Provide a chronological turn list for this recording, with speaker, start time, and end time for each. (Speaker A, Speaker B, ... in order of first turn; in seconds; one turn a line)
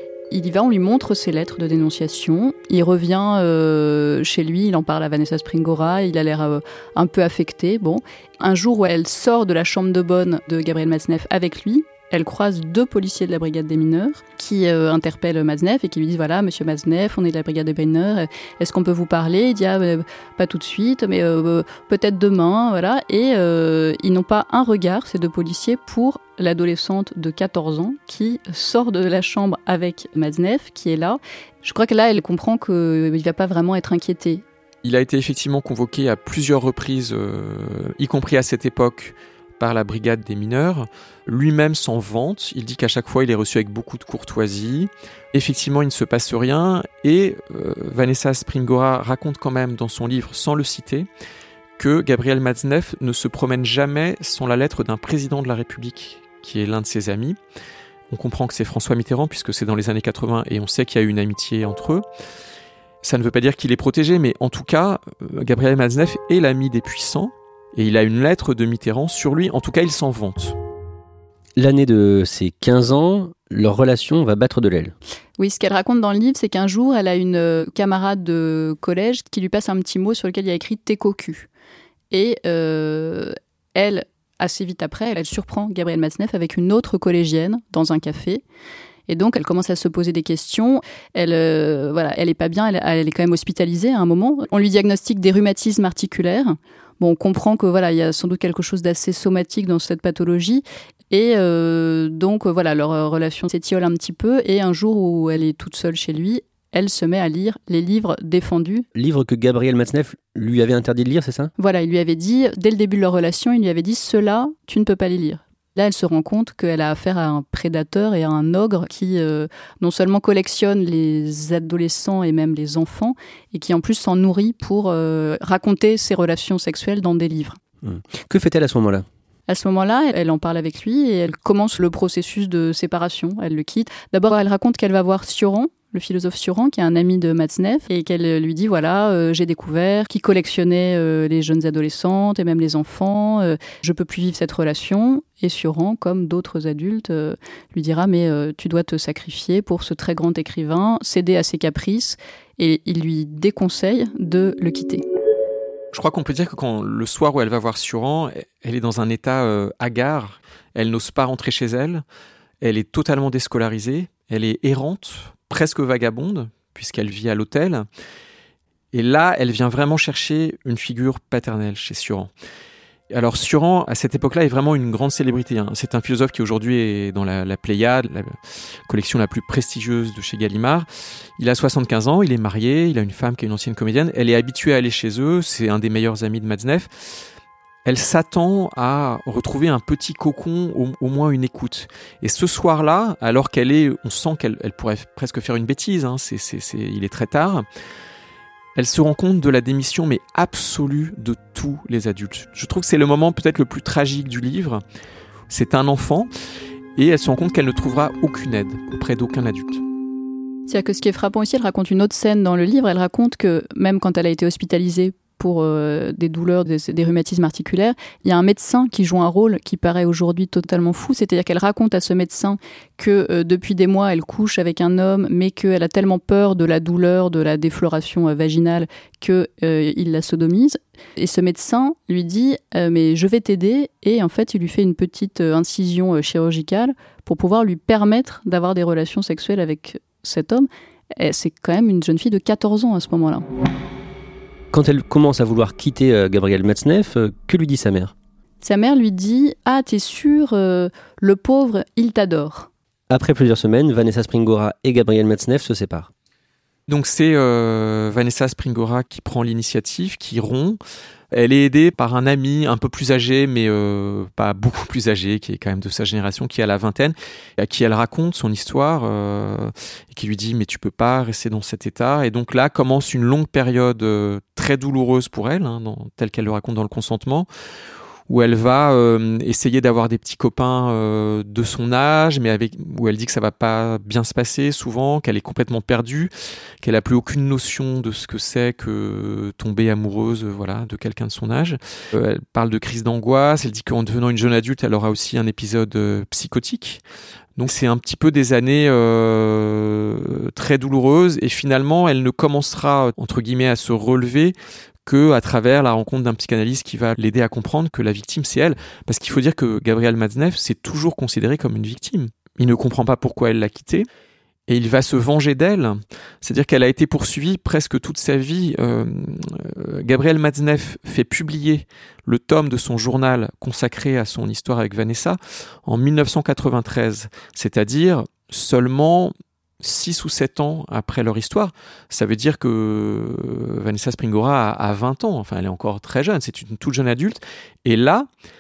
Speaker A: 0.3-34.4
Speaker B: 34.8-51.1
Speaker B: 51.8-57.4
Speaker B: 58.1-62.0
Speaker B: 63.0-70.5
Speaker C: 71.6-74.9
Speaker A: 75.4-81.5
Speaker A: 82.1-88.4
Speaker A: 89.1-108.9
Speaker C: 108.9-111.5
Speaker A: 111.6-127.6
Speaker C: 127.8-129.1
Speaker A: 129.5-155.0
Speaker B: 155.9-162.0
Speaker B: 162.6-167.8
Speaker B: 168.9-172.3
Speaker B: 173.1-178.3
Speaker B: 178.9-180.9
Speaker B: 181.4-186.9
Speaker B: 187.8-197.6
Speaker B: 198.8-204.8
Speaker B: 205.5-206.3
Speaker B: 207.0-209.8
Speaker A: 210.7-243.4
Speaker C: 244.7-248.1
Speaker A: 248.6-252.7
Speaker C: 253.1-256.1
Speaker B: 256.9-260.8
Speaker B: 261.3-277.5
Speaker B: 278.3-286.3
Speaker B: 286.8-297.0
Speaker B: 297.6-314.1
Speaker B: 314.7-338.3